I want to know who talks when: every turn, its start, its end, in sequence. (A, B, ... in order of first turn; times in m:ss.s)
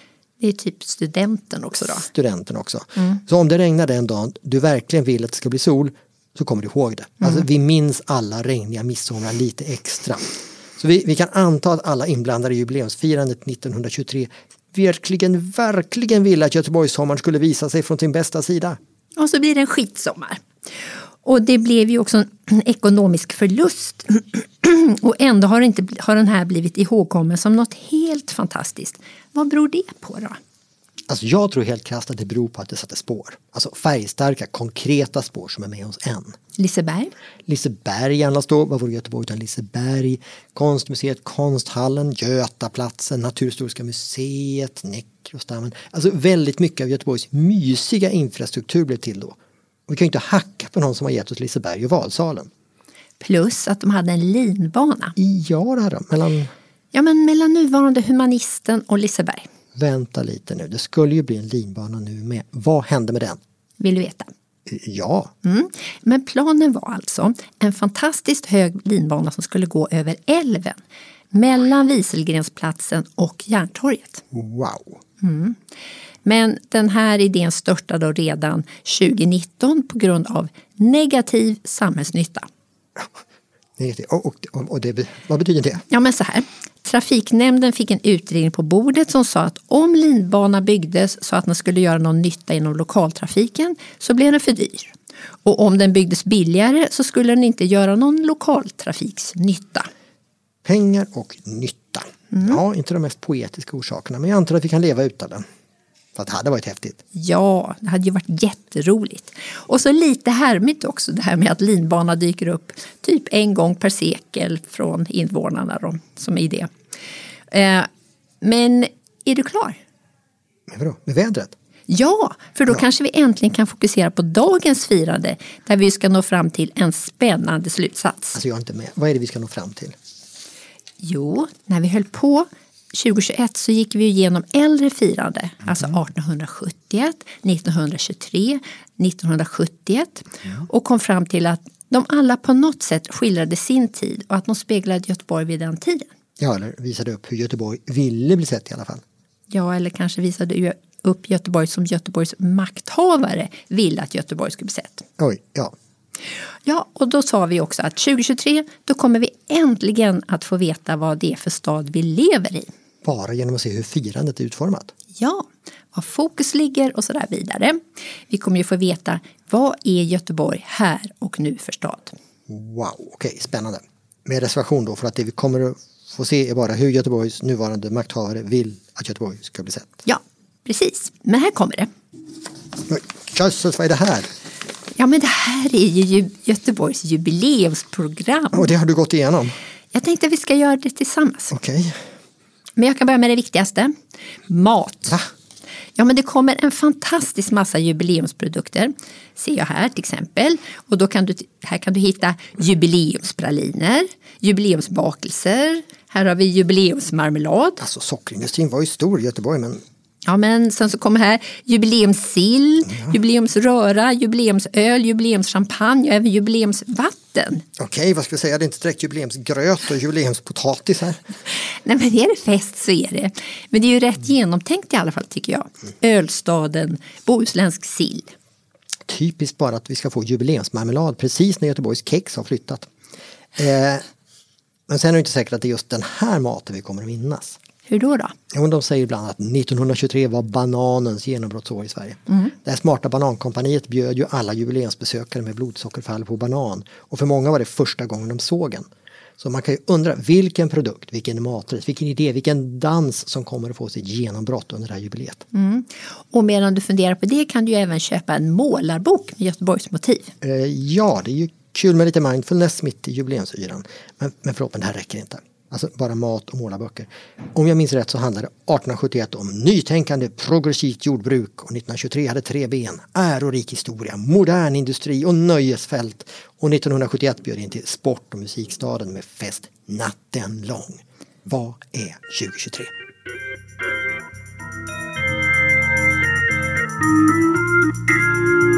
0:00.4-0:02.1 A
0:01.9-0:18.8 B
0:19.2-0:20.4 A
0:21.2-0:30.4 A
0:31.1-0:36.4 B
0:36.6-0:37.1 A
0:37.5-0:52.5 B
0:53.2-0:55.2 A
0:55.2-0:56.5 B
0:56.9-0:59.5 A
0:59.8-1:03.4 B
1:03.8-1:04.3 A
1:04.7-1:05.3 B
1:05.4-1:10.8 A
1:11.3-1:14.2 A
1:14.3-1:15.0 B
1:15.2-1:15.6 A
1:16.2-1:22.5 A
1:23.8-1:25.8 B
1:25.9-1:34.9 A
1:35.4-1:39.9 A
1:40.6-1:45.4 B
1:42.3-1:42.6 A
1:46.2-1:47.0 B
1:47.1-1:56.7 A
1:57.5-1:57.9 A
1:58.4-1:59.8 A
2:00.7-2:01.5 B
2:01.9-2:08.4 A
2:08.3-2:10.0 B
2:11.0-2:26.1 A
2:26.4-2:29.0 B
2:29.5-2:35.1 A
2:35.2-2:35.7 B
2:36.7-2:42.7 A
2:43.0-2:44.9 B
2:45.2-2:47.8 A
2:48.3-2:52.2 A
2:52.5-2:59.9 B
3:00.1-3:01.9 A
3:02.8-3:04.3 B
3:05.0-3:08.7 A
3:08.5-3:09.5 B
3:09.9-3:11.5 A
3:11.5-3:12.0 B
3:12.8-3:13.9 A
3:14.5-3:15.2 A
3:16.0-3:27.8 A
3:27.8-3:29.8 B
3:30.3-3:37.6 A
3:37.8-3:41.2 B
3:41.8-3:48.3 A
3:49.1-3:52.9 B
3:53.6-3:54.0 B
3:54.9-3:57.6 B
3:57.9-3:58.3 A
3:58.5-4:15.5 B
4:15.5-4:20.3 A
4:20.4-4:42.9 B